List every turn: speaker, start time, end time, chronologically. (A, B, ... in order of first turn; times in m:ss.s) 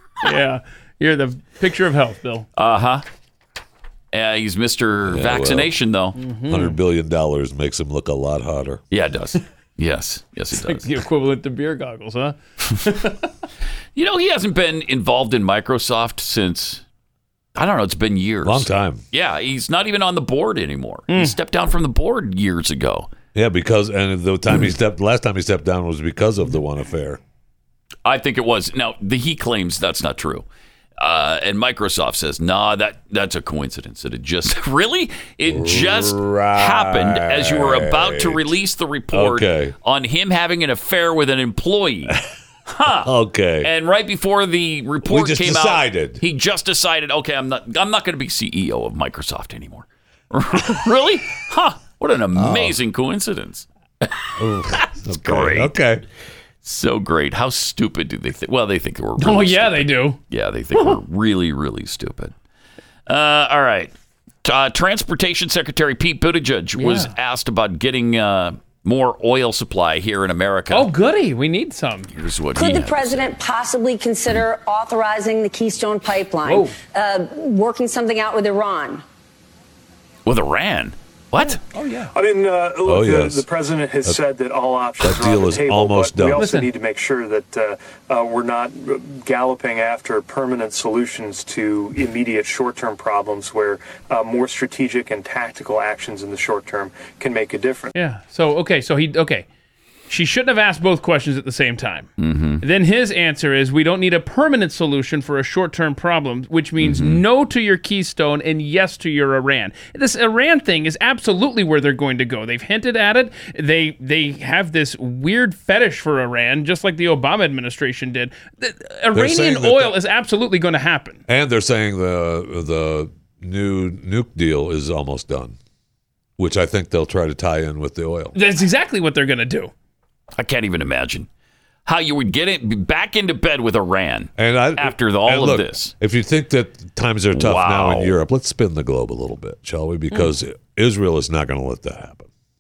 0:00.2-0:02.5 A
0:02.6-0:03.0 B
0:04.1-0:06.2 B
0:05.1-0:05.8 C
0:06.2-0:06.8 A
0:06.5-0:08.8 C
0:08.9-0:10.9 B
0:10.5-0:13.3 A
0:14.0-0:16.8 B
0:17.6-0:23.1 B
0:18.4-0:19.0 C
0:21.1-0:21.4 A
0:23.4-0:27.2 C
0:28.0-0:30.4 B
0:31.0-0:53.7 B
0:35.5-0:38.6 C
0:39.1-0:39.8 C
0:43.0-0:43.7 C
0:45.0-0:46.2 C
0:52.4-0:52.8 C
0:54.4-0:56.0 C
0:55.1-0:55.7 B
0:56.6-1:02.3 B
0:59.2-1:00.2 A
1:03.1-1:03.9 B
1:04.4-1:10.9 B
1:06.8-1:07.1 A
1:10.7-1:12.1 A
1:12.1-1:13.3 B
1:12.6-1:19.0 D
1:16.4-1:16.8 A
1:20.3-1:21.6 B
1:21.7-1:22.1 A
1:22.1-1:37.9 E
1:22.8-1:23.5 C
1:25.0-1:26.5 C
1:26.4-1:26.7 A
1:38.0-1:39.5 A
1:40.1-2:01.2 A
1:42.2-1:42.6 B
1:46.8-1:47.2 B
1:59.1-2:00.0 C
2:01.3-2:05.6 C
2:06.4-2:08.4 C
2:08.4-2:09.7 A
2:10.4-2:11.3 B
2:11.9-2:15.9 B
2:14.4-2:22.3 C
2:17.3-2:18.2 B